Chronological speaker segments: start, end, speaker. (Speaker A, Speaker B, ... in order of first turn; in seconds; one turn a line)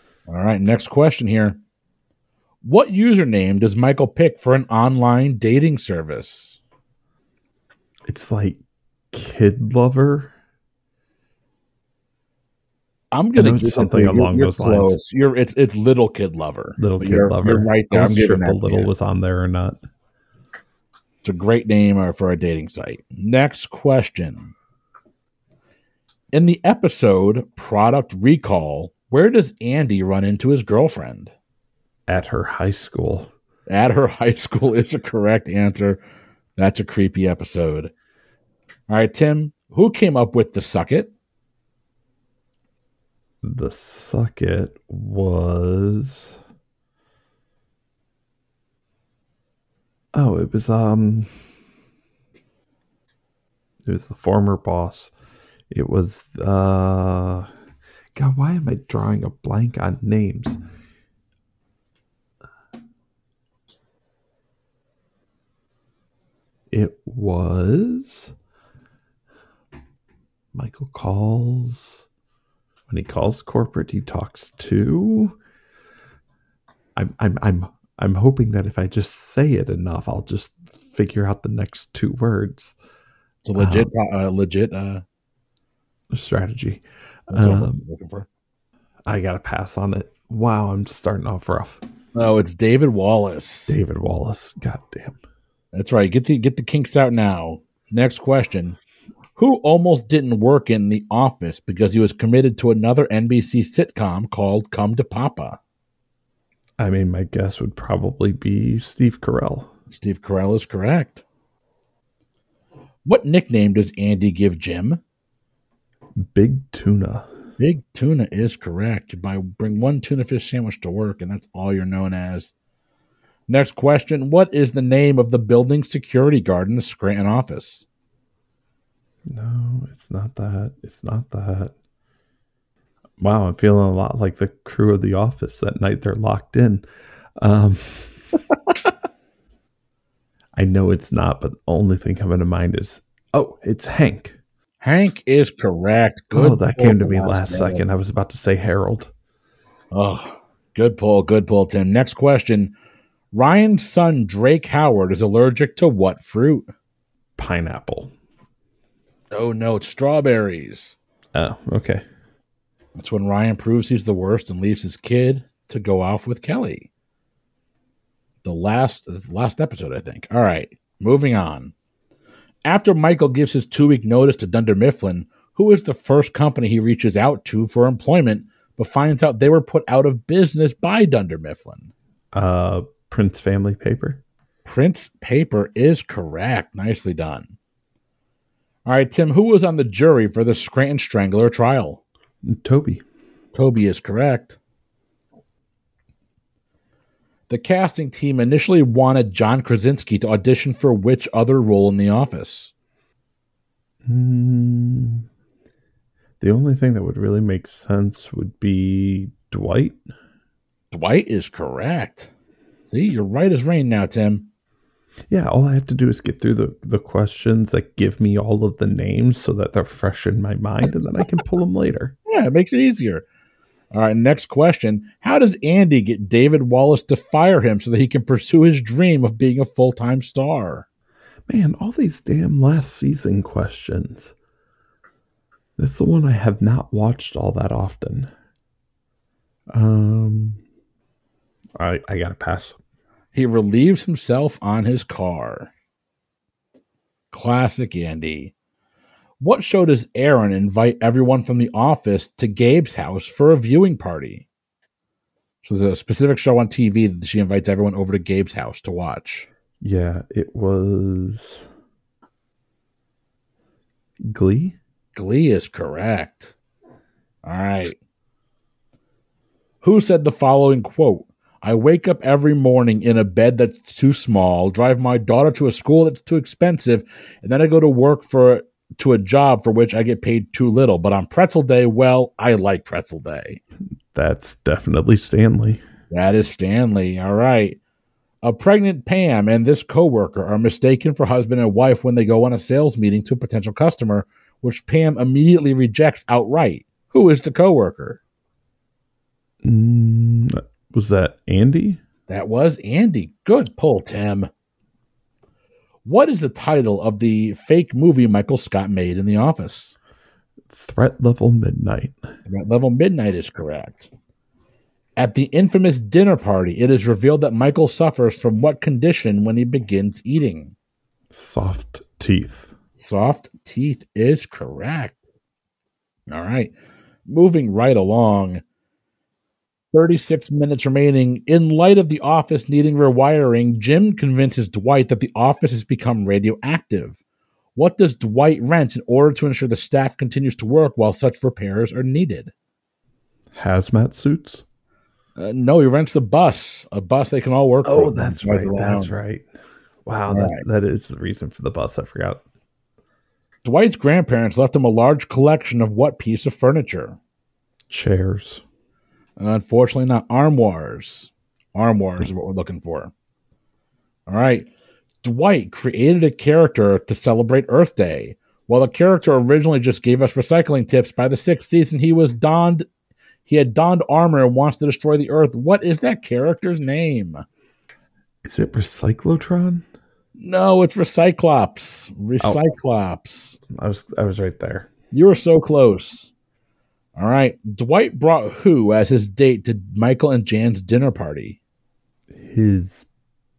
Speaker A: 0.3-1.6
Speaker A: 2.6-6.6
Speaker B: 8.1-8.6
Speaker B: 9.1-10.3
Speaker A: 13.1-18.9
Speaker B: 13.3-14.9
Speaker B: 16.8-19.8
Speaker A: 21.2-24.5
Speaker A: 26.3-31.3
Speaker B: 32.1-33.3
Speaker A: 33.7-36.0
Speaker A: 36.6-37.9
Speaker A: 38.9-41.1
Speaker B: 43.4-46.4
Speaker B: 50.1-51.4
Speaker B: 53.8-55.1
Speaker B: 55.7-57.5
Speaker B: 58.1-60.6
Speaker B: 66.7-68.3
Speaker B: 70.5-72.0
Speaker B: 72.9-75.4
Speaker B: 77.0-82.8
Speaker A: 83.4-85.0
Speaker B: 83.5-83.9
Speaker B: 86.1-87.8
Speaker A: 87.3-88.3
Speaker B: 89.0-91.8
Speaker A: 92.1-93.8
Speaker B: 93.7-95.2
Speaker A: 95.7-98.8
Speaker A: 99.3-105.6
Speaker B: 106.8-109.7
Speaker A: 109.9-111.2
Speaker A: 113.0-115.0
Speaker B: 116.2-117.3
Speaker A: 117.6-122.5
Speaker A: 123.5-127.8
Speaker B: 129.3-131.7
Speaker B: 133.2-136.8
Speaker B: 137.4-138.2
Speaker B: 140.5-144.3
Speaker A: 144.8-147.8
Speaker B: 146.3-149.1
Speaker A: 149.9-152.7
Speaker A: 153.3-156.7
Speaker B: 157.4-158.1
Speaker A: 159.3-161.0
Speaker B: 161.3-162.0
Speaker A: 162.9-166.9
Speaker A: 168.4-171.7
Speaker A: 172.7-181.9
Speaker B: 182.3-184.2
Speaker A: 184.6-187.5
Speaker A: 188.8-192.0
Speaker B: 192.4-193.0
Speaker A: 193.5-194.6
Speaker A: 197.5-202.7
Speaker B: 204.1-205.2
Speaker B: 206.4-210.0
Speaker A: 210.9-212.3
Speaker A: 212.9-214.5
Speaker B: 215.3-222.1
Speaker A: 222.3-223.2
Speaker A: 223.9-230.8
Speaker B: 231.5-234.3
Speaker B: 235.8-238.3
Speaker B: 239.7-240.6
Speaker B: 241.8-242.8
Speaker A: 243.3-245.7
Speaker A: 247.3-248.5
Speaker A: 249.4-254.4
Speaker A: 255.6-259.5
Speaker B: 259.8-261.6
Speaker B: 264.2-264.8
Speaker A: 265.1-266.5
Speaker A: 267.4-268.0
Speaker A: 269.8-283.6
Speaker B: 284.1-285.8
Speaker A: 286.1-287.8
Speaker A: 288.4-298.2
Speaker B: 299.6-302.0
Speaker A: 302.3-304.5
Speaker A: 306.0-309.9
Speaker B: 310.7-312.2
Speaker A: 312.5-314.1
Speaker A: 315.2-320.7
Speaker B: 321.3-322.7
Speaker A: 323.0-325.2
Speaker A: 326.3-326.7
Speaker A: 327.3-328.6
Speaker A: 329.9-337.2
Speaker A: 337.8-342.5
Speaker B: 343.5-344.6
Speaker A: 345.4-349.1
Speaker B: 347.8-349.4
Speaker B: 350.1-352.4
Speaker A: 350.3-350.6
Speaker A: 353.6-357.2
Speaker B: 357.9-358.6
Speaker A: 359.4-363.1
Speaker A: 364.3-364.7
Speaker A: 365.2-372.9
Speaker A: 373.4-377.4
Speaker B: 378.4-379.9
Speaker A: 380.4-383.6
Speaker B: 383.7-384.9
Speaker A: 385.1-386.3
Speaker A: 387.2-391.6
Speaker B: 392.3-393.1